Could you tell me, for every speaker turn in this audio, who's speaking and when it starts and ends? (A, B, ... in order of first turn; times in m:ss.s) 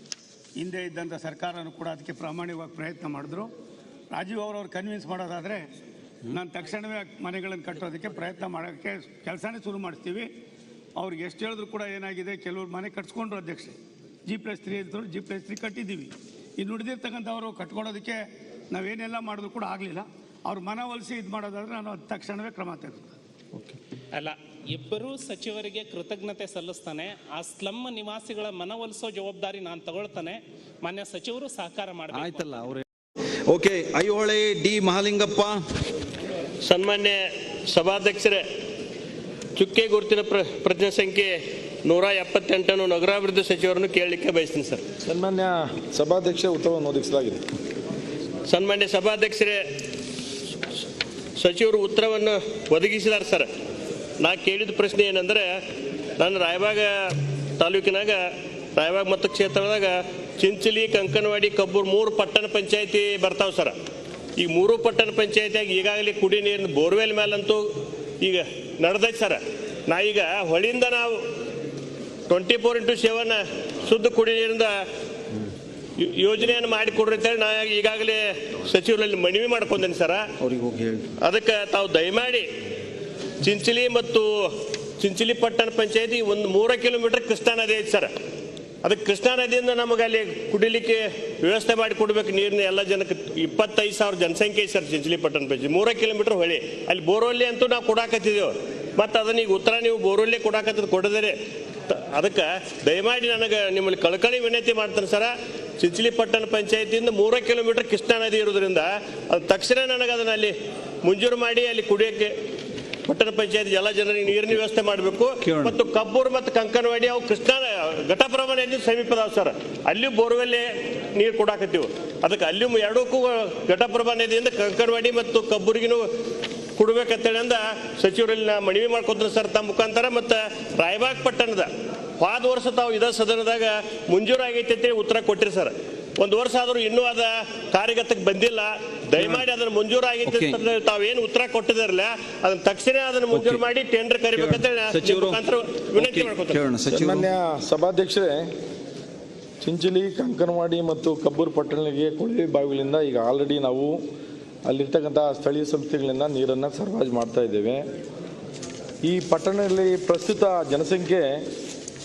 0:00.6-0:03.5 A
0:04.1-0:05.6 A
0:06.3-0:10.3 A
0:11.0-0:13.7 A
0:14.3-0:23.1 A
0:24.1-0:32.8 B
0:32.1-0:32.8 C
0:33.5-0:35.6 C
0:36.6-0:38.4 D
0:39.6-0:44.8 D
0:45.0-0:47.4 E
0:48.5-0:49.6 D
0:51.4-0:53.5 D
0:54.2-0:55.6 D
0:56.2-0:58.2 D
0:58.8-1:03.8 D
1:04.4-1:07.6 D
1:08.2-1:11.2 D
1:12.3-1:14.7 D
1:16.0-1:20.3 D
1:20.4-1:21.1 C
1:21.2-1:22.5 D
1:23.4-1:28.1 D
1:28.8-1:41.4 D
1:41.9-1:52.3 D
1:53.1-2:06.0 D
2:06.8-2:26.6 D
2:20.2-2:20.6 C
2:23.3-2:23.6 C
2:24.4-2:25.4 C
2:26.0-2:27.3 C
2:26.9-2:28.4 E
2:29.6-2:34.0 E
2:34.7-2:37.8 E
2:39.0-2:41.2 E